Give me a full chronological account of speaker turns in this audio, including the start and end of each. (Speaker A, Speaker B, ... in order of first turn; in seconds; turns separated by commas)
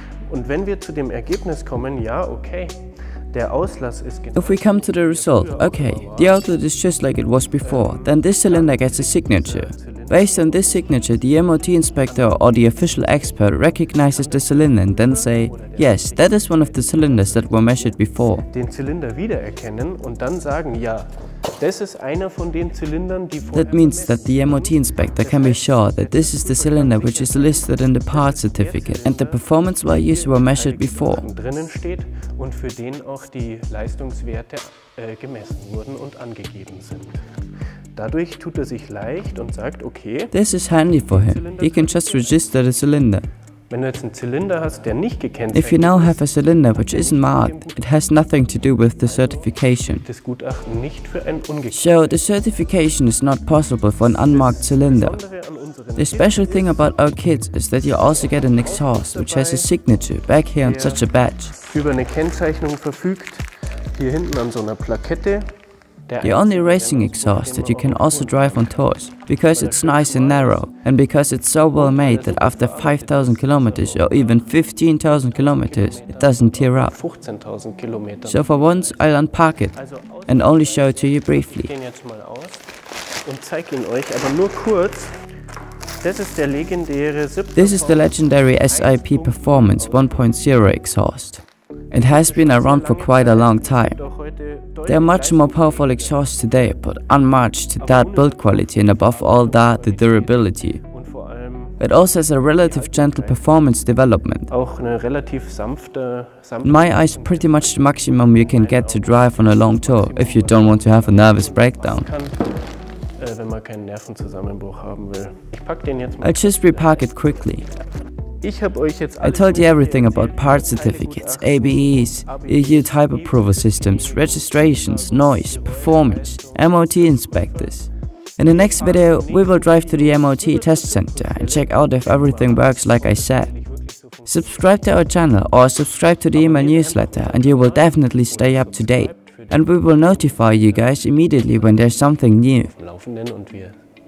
Speaker A: 0.3-6.5, Speaker B: 4.3-18.4, Speaker A: 7.6-10.9, Speaker A: 12.1-13.5, Speaker A: 14.1-37.2, Speaker B: 23.5-31.3, Speaker A: 38.0-40.4, Speaker B: 40.3-43.3, Speaker A: 41.0-42.4, Speaker A: 43.7-48.2, Speaker B: 45.5-50.0, Speaker A: 49.0-52.2, Speaker B: 51.7-55.2, Speaker A: 54.3-57.1, Speaker B: 56.0-61.5, Speaker A: 58.0-59.7, Speaker A: 60.6-65.5, Speaker A: 66.1-68.9, Speaker B: 66.2-76.9, Speaker A: 69.5-70.7, Speaker A: 71.7-74.5, Speaker A: 75.3-79.1, Speaker B: 78.3-79.8, Speaker A: 79.7-82.7, Speaker B: 80.3-81.7, Speaker A: 83.2-85.2, Speaker A: 85.9-90.3, Speaker B: 87.6-94.0, Speaker A: 92.0-96.2, Speaker B: 94.9-100.8, Speaker A: 97.8-101.8, Speaker B: 101.8-104.5, Speaker A: 102.6-103.5, Speaker A: 104.5-112.5, Speaker B: 106.6-112.1, Speaker A: 113.2-117.1, Speaker B: 116.2-117.7, Speaker A: 118.4-127.9, Speaker B: 119.2-127.9, Speaker B: 128.4-133.5, Speaker A: 128.5-134.9, Speaker B: 134.3-142.7, Speaker A: 136.3-140.9, Speaker A: 142.6-143.8